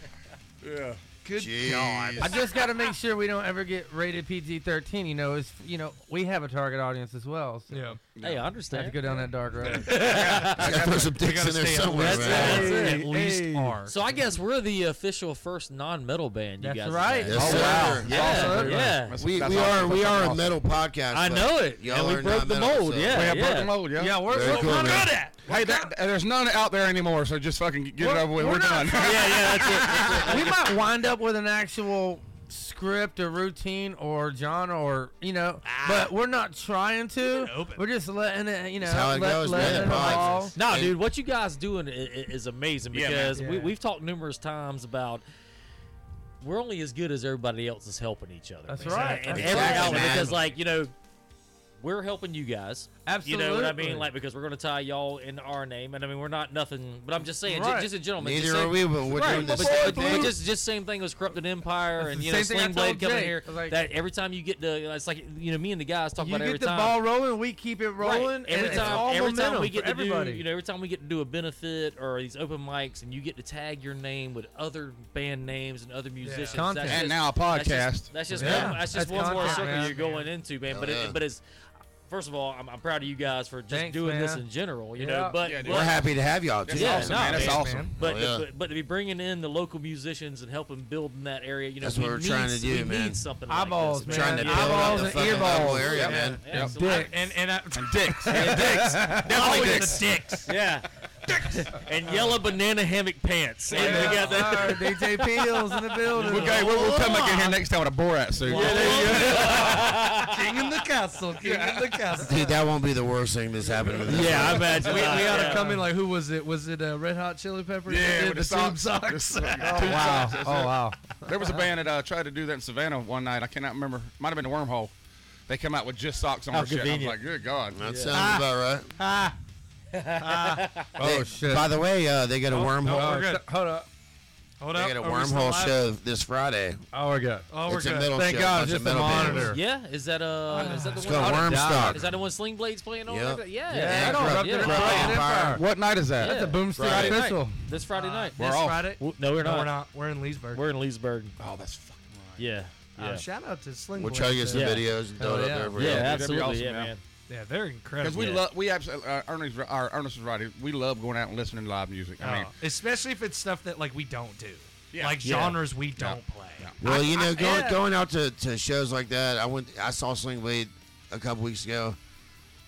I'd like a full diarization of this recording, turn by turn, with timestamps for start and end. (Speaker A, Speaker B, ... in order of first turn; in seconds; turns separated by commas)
Speaker A: 0.6-1.0, Speaker B: 1.2-2.4, Speaker C: 1.4-2.4, Speaker D: 2.2-7.9, Speaker B: 7.7-8.0, Speaker A: 8.2-8.4, Speaker E: 8.2-9.0, Speaker D: 8.7-9.9, Speaker B: 9.1-9.9, Speaker E: 9.6-10.9, Speaker A: 9.9-11.2, Speaker C: 10.6-12.7, Speaker B: 11.1-14.0, Speaker E: 12.0-13.1, Speaker D: 12.2-13.8, Speaker E: 13.9-19.2, Speaker D: 16.6-19.0, Speaker C: 17.3-18.6, Speaker A: 17.3-20.6, Speaker C: 19.2-23.4, Speaker E: 21.1-23.7, Speaker A: 23.1-24.3, Speaker D: 24.0-25.1, Speaker C: 24.3-25.1, Speaker B: 24.3-25.9, Speaker A: 25.4-30.2, Speaker D: 28.0-40.5, Speaker E: 29.0-30.5, Speaker B: 35.6-36.1, Speaker B: 37.2-37.8, Speaker C: 38.8-41.0, Speaker B: 39.6-40.4, Speaker A: 39.6-39.9, Speaker E: 40.6-45.2, Speaker A: 42.9-43.4, Speaker B: 43.4-43.7, Speaker E: 46.4-50.9, Speaker D: 48.7-50.2, Speaker B: 48.8-49.9, Speaker C: 49.3-50.4, Speaker A: 49.6-50.1, Speaker E: 51.8-67.0, Speaker D: 53.1-54.1, Speaker D: 57.4-57.9, Speaker C: 58.2-60.4, Speaker D: 59.2-60.3, Speaker D: 62.0-63.8, Speaker D: 66.2-70.4, Speaker E: 68.0-81.4, Speaker B: 68.6-69.0, Speaker B: 76.2-76.7, Speaker D: 76.5-77.0, Speaker A: 76.8-78.6, Speaker C: 78.4-78.7, Speaker D: 78.4-79.9, Speaker B: 79.1-80.3, Speaker C: 80.7-81.2, Speaker E: 82.1-86.1, Speaker D: 83.7-84.4, Speaker D: 85.0-85.4, Speaker A: 85.4-86.1, Speaker C: 85.7-87.5, Speaker A: 86.7-88.0, Speaker E: 86.7-97.3, Speaker B: 87.1-87.9, Speaker C: 88.0-88.4, Speaker C: 91.8-93.2, Speaker D: 93.5-97.2, Speaker C: 94.1-96.4, Speaker B: 96.0-100.5, Speaker A: 96.5-96.8, Speaker A: 97.7-100.0, Speaker D: 98.3-99.9, Speaker E: 98.3-105.1, Speaker B: 101.3-102.3, Speaker B: 103.7-104.9, Speaker D: 103.7-106.7, Speaker B: 106.2-107.6, Speaker A: 106.2-109.9, Speaker B: 108.4-112.5, Speaker E: 108.5-110.5, Speaker D: 108.5-109.5, Speaker A: 111.4-112.2, Speaker C: 112.2-115.3, Speaker B: 113.7-120.3, Speaker E: 114.0-115.7, Speaker D: 115.3-115.9, Speaker A: 117.9-124.9, Speaker D: 119.6-121.2, Speaker A: 125.5-128.0, Speaker E: 126.5-127.2, Speaker C: 127.7-128.9, Speaker E: 127.8-128.2, Speaker B: 128.1-129.3, Speaker E: 129.9-130.9, Speaker B: 130.2-130.7, Speaker D: 131.0-131.7, Speaker C: 131.0-133.2, Speaker D: 132.5-133.9, Speaker B: 132.8-133.4, Speaker B: 134.6-135.8, Speaker C: 134.7-136.8, Speaker D: 136.9-137.5, Speaker B: 137.5-138.1, Speaker C: 137.7-139.5, Speaker D: 138.1-139.6, Speaker E: 139.4-145.1, Speaker B: 140.5-141.4, Speaker D: 140.6-142.0, Speaker C: 141.0-142.1, Speaker C: 143.1-145.6, Speaker D: 143.7-145.6, Speaker A: 144.7-146.4, Speaker E: 146.2-148.4, Speaker D: 146.2-147.6, Speaker C: 146.8-147.2, Speaker B: 147.9-150.7, Speaker A: 148.4-148.9, Speaker E: 149.0-149.7, Speaker E: 150.5-151.4, Speaker A: 151.4-152.5, Speaker E: 152.4-153.2, Speaker B: 153.0-154.8, Speaker C: 154.0-156.3, Speaker E: 154.5-154.8, Speaker D: 155.2-155.8, Speaker E: 155.8-157.0, Speaker A: 155.8-156.9, Speaker B: 157.3-158.4, Speaker A: 158.0-162.5, Speaker B: 162.2-167.8, Speaker A: 164.9-166.8, Speaker E: 165.2-165.6, Speaker C: 166.8-172.0